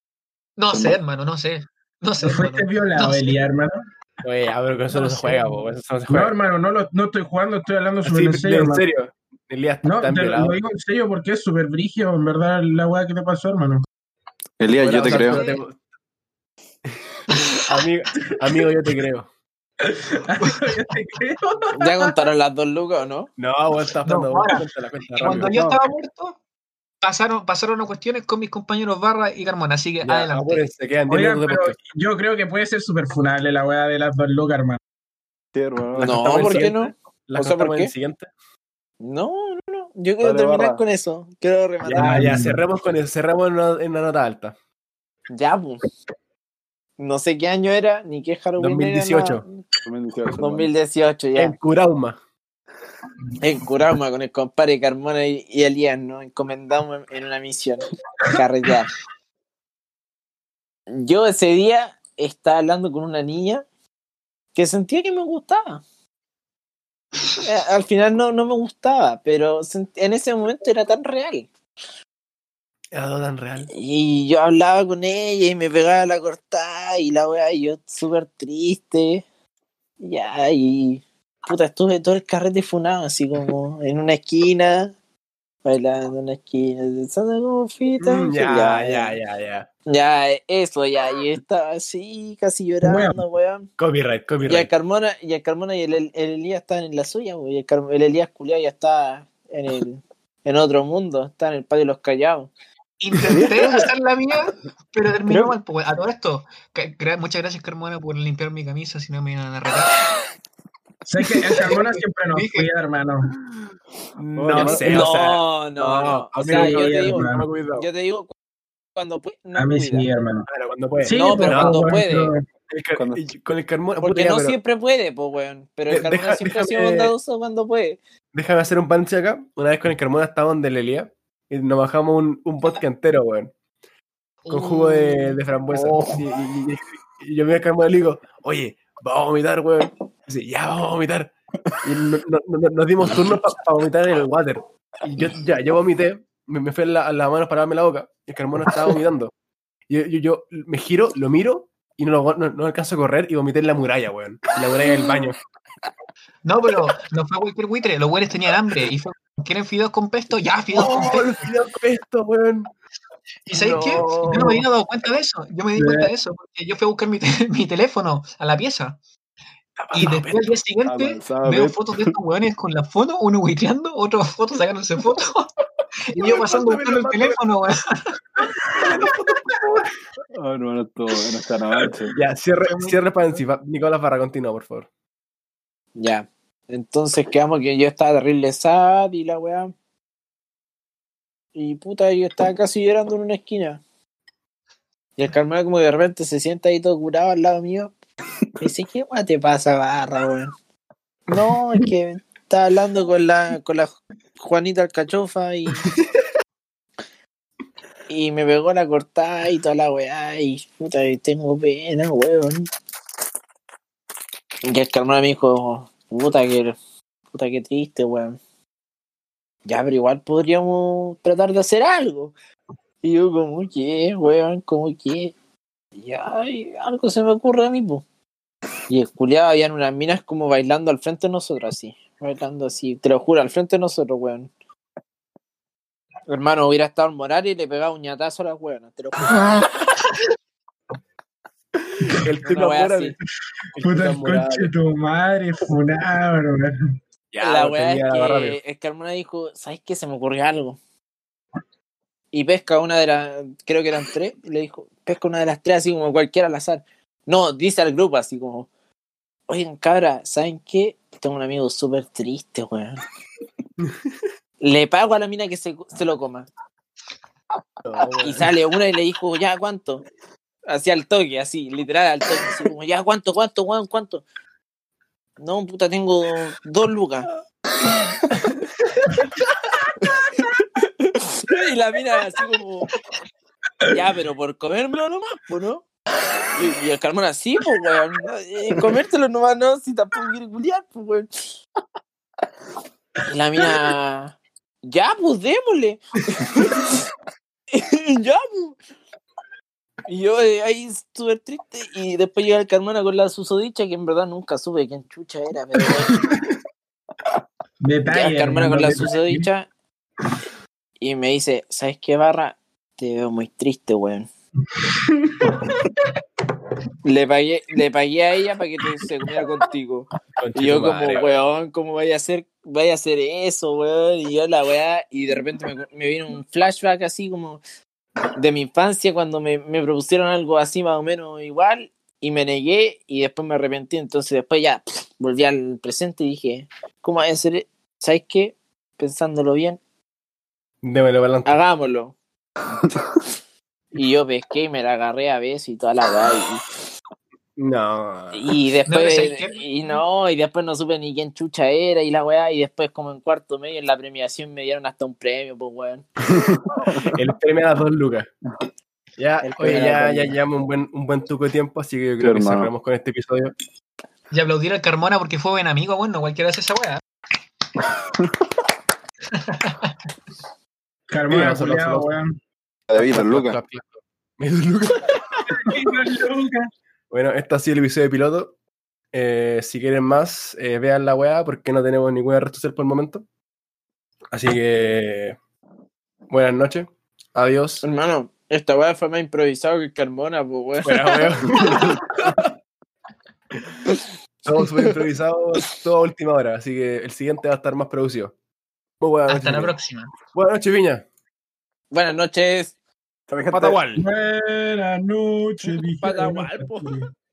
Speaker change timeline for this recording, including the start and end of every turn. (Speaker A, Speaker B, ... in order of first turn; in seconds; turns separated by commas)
Speaker A: 0.6-3.4, Speaker B: 0.7-1.0, Speaker C: 2.2-3.7, Speaker D: 4.2-6.3, Speaker A: 4.9-5.6, Speaker C: 6.1-8.8, Speaker D: 8.0-10.6, Speaker C: 9.8-13.9, Speaker B: 14.6-15.4, Speaker D: 14.8-15.8, Speaker A: 15.0-15.6, Speaker D: 17.3-19.3, Speaker C: 19.8-22.1, Speaker E: 21.7-23.3, Speaker D: 23.4-25.5, Speaker A: 24.1-24.6, Speaker A: 25.2-26.4, Speaker B: 25.2-25.8, Speaker A: 27.0-30.6, Speaker D: 30.0-31.8, Speaker C: 31.1-34.8, Speaker B: 35.5-36.7, Speaker E: 36.0-37.9, Speaker D: 36.0-38.3, Speaker E: 39.0-42.2, Speaker B: 40.2-40.8, Speaker D: 41.8-44.5, Speaker C: 41.9-42.6, Speaker E: 45.3-45.8, Speaker E: 47.0-49.6, Speaker D: 48.6-49.5, Speaker B: 49.9-50.7, Speaker E: 50.4-51.6, Speaker D: 51.4-52.2, Speaker E: 53.4-58.9, Speaker E: 60.9-63.6, Speaker E: 64.5-65.8, Speaker E: 67.4-71.5, Speaker D: 72.9-73.7, Speaker E: 73.7-79.2, Speaker E: 80.0-85.0, Speaker E: 85.7-89.1, Speaker D: 88.0-89.7, Speaker E: 89.9-93.7, Speaker C: 92.8-93.2, Speaker D: 93.8-94.7, Speaker E: 94.5-102.5, Speaker A: 103.0-109.9, Speaker B: 103.2-103.9, Speaker B: 105.3-105.6, Speaker C: 111.0-113.3, Speaker A: 112.3-112.7, Speaker D: 114.2-117.9, Speaker B: 114.4-115.1, Speaker E: 114.5-118.3, Speaker C: 116.4-117.5, Speaker E: 119.0-120.1, Speaker C: 119.6-120.5, Speaker D: 120.5-121.9, Speaker C: 121.0-122.5, Speaker E: 121.1-122.3, Speaker D: 122.7-124.6, Speaker B: 123.0-123.2, Speaker E: 124.0-128.0, Speaker D: 125.9-127.1, Speaker D: 128.3-133.5, Speaker A: 134.4-135.4, Speaker D: 134.5-141.3, Speaker D: 141.8-149.3, Speaker D: 149.9-155.4, Speaker B: 154.9-155.2, Speaker A: 156.4-161.4, Speaker D: 160.7-162.7, Speaker A: 163.5-169.0, Speaker D: 163.5-164.6, Speaker E: 163.5-164.3, Speaker C: 165.8-166.1, Speaker D: 169.8-170.4, Speaker A: 169.9-175.5, Speaker B: 170.8-172.1, Speaker A: 176.1-178.2, Speaker D: 176.1-177.4, Speaker D: 178.8-179.3, Speaker B: 180.3-182.2, Speaker D: 182.1-184.9, Speaker A: 182.6-183.4, Speaker E: 186.0-189.7, Speaker E: 191.6-193.8, Speaker E: 195.2-197.9, Speaker E: 198.6-200.5, Speaker E: 201.3-205.9, Speaker E: 208.1-212.7, Speaker E: 214.7-216.8, Speaker E: 217.3-218.4, Speaker E: 219.7-222.3, Speaker E: 223.0-225.3, Speaker E: 226.0-228.0, Speaker E: 228.9-234.5, Speaker E: 236.3-239.4, Speaker D: 242.0-243.2, Speaker E: 242.4-243.2, Speaker D: 243.7-244.7, Speaker C: 243.8-246.7, Speaker D: 247.3-248.6, Speaker E: 247.4-250.8, Speaker E: 252.3-258.7, Speaker E: 259.5-263.0, Speaker E: 264.6-266.5, Speaker D: 267.9-268.5, Speaker E: 268.2-270.0, Speaker E: 270.7-274.2, Speaker E: 275.4-277.3, Speaker E: 280.1-282.9, Speaker E: 283.9-285.8, Speaker E: 286.5-291.3, Speaker E: 293.3-296.9, Speaker E: 297.7-298.8, Speaker E: 300.1-306.2, Speaker C: 307.8-309.5, Speaker E: 308.1-309.7, Speaker E: 311.0-314.3, Speaker C: 314.9-315.5, Speaker E: 317.0-327.6, Speaker D: 320.4-321.3, Speaker E: 328.3-339.8, Speaker D: 340.8-341.5, Speaker E: 341.4-342.1, Speaker E: 343.9-346.6, Speaker D: 347.6-348.4, Speaker E: 348.3-356.1, Speaker A: 348.9-349.6, Speaker B: 356.3-357.2, Speaker D: 356.9-358.3, Speaker D: 359.2-363.6, Speaker E: 359.4-360.4, Speaker B: 362.2-362.7, Speaker A: 364.3-367.0, Speaker B: 368.0-368.5, Speaker A: 369.3-370.0, Speaker C: 371.1-372.4, Speaker D: 371.3-372.1, Speaker B: 372.9-373.6, Speaker D: 372.9-375.2, Speaker C: 375.5-376.7, Speaker D: 377.1-378.6, Speaker D: 379.1-383.2, Speaker D: 384.3-385.4, Speaker D: 386.3-387.8, Speaker E: 387.8-392.0, Speaker D: 390.8-392.4, Speaker D: 394.4-398.3, Speaker D: 399.0-399.8, Speaker A: 399.3-400.1, Speaker D: 400.3-401.1, Speaker E: 401.9-402.7, Speaker B: 403.3-403.8, Speaker D: 403.5-404.0, Speaker C: 404.0-407.1, Speaker E: 405.6-406.9